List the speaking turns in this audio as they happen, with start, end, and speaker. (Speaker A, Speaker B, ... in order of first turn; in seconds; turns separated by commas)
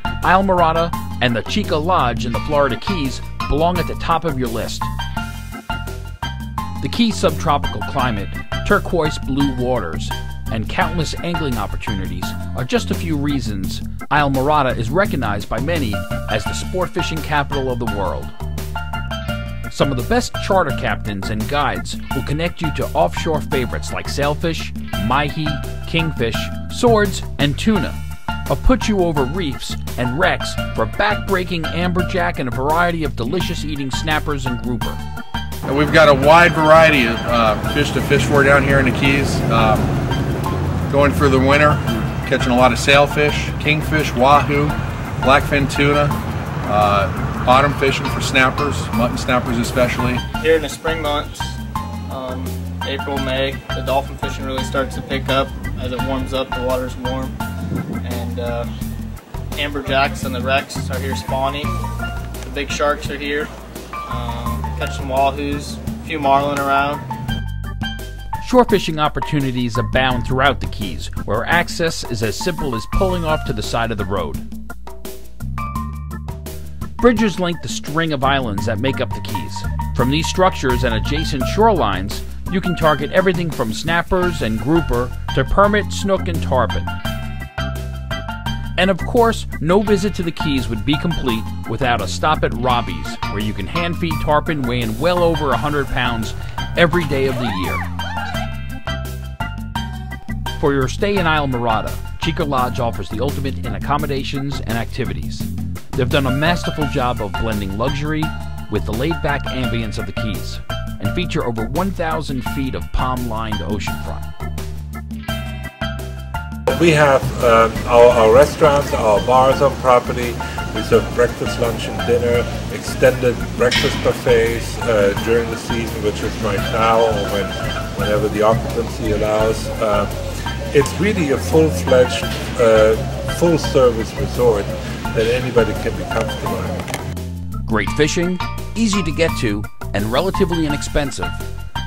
Speaker A: 0.2-4.9, Speaker A: 6.8-18.3, Speaker A: 19.7-35.0, Speaker B: 35.6-39.9, Speaker B: 40.9-50.2, Speaker C: 50.3-57.3, Speaker C: 58.0-58.7, Speaker C: 59.5-61.7, Speaker C: 62.4-63.5, Speaker C: 64.0-67.0, Speaker A: 68.4-74.5, Speaker A: 77.0-86.9, Speaker A: 88.8-97.8, Speaker A: 100.6-114.3, Speaker D: 116.7-130.1, Speaker D: 130.7-136.8, Speaker A: 137.7-141.4